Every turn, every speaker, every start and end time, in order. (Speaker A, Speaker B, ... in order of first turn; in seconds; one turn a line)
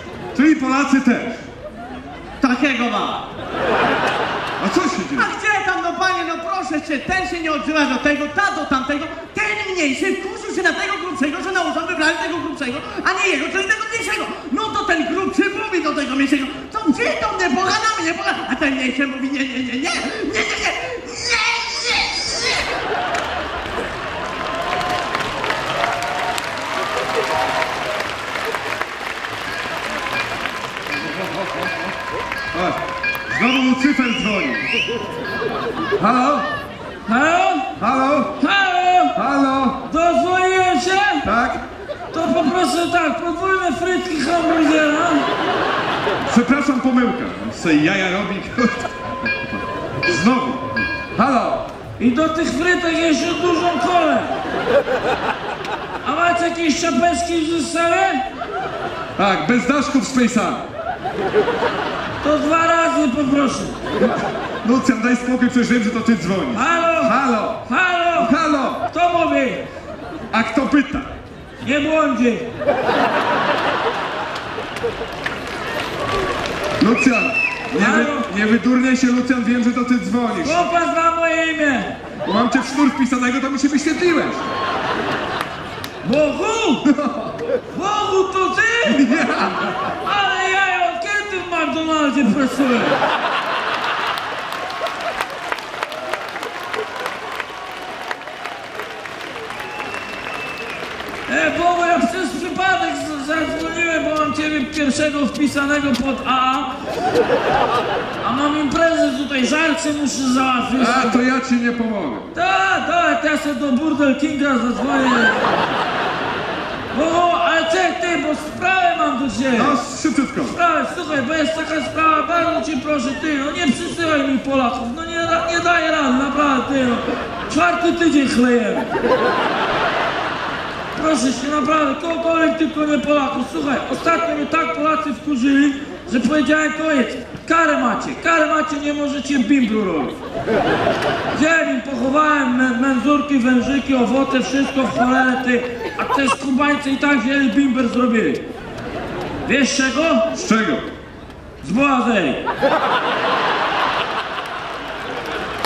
Speaker A: 0.3-1.4
Speaker B: 2.4-3.2
Speaker A: 4.6-5.3
Speaker B: 5.2-22.6
Speaker A: 32.5-34.7
Speaker A: 36.0-36.5
Speaker C: 37.1-37.7
Speaker A: 37.8-38.4
Speaker C: 38.4-39.2
Speaker A: 39.1-39.8
Speaker C: 39.9-41.3
Speaker A: 41.2-41.6
Speaker C: 42.1-45.3
Speaker A: 46.3-48.9
Speaker A: 50.0-51.6
Speaker C: 52.0-54.3
Speaker C: 56.0-58.2
Speaker A: 59.2-60.6
Speaker C: 62.2-63.8
Speaker A: 64.0-68.8
Speaker C: 66.5-68.4
Speaker C: 68.9-69.6
Speaker A: 70.3-71.1
Speaker C: 71.6-72.5
Speaker A: 76.8-80.7
Speaker C: 77.8-78.3
Speaker C: 80.4-81.9
Speaker A: 82.2-84.5
Speaker C: 86.0-86.8
Speaker A: 86.9-87.3
Speaker C: 87.7-89.2
Speaker A: 88.8-89.8
Speaker C: 90.0-93.0
Speaker C: 101.3-106.7
Speaker C: 108.2-111.2
Speaker A: 110.8-112.3
Speaker C: 112.3-115.5
Speaker C: 116.9-119.8
Speaker A: 119.5-120.6
Speaker C: 120.4-128.9
Speaker C: 130.9-140.2
Speaker C: 141.3-148.4
Speaker C: 149.4-150.3
Speaker A: 150.3-150.8
Speaker C: 151.6-152.4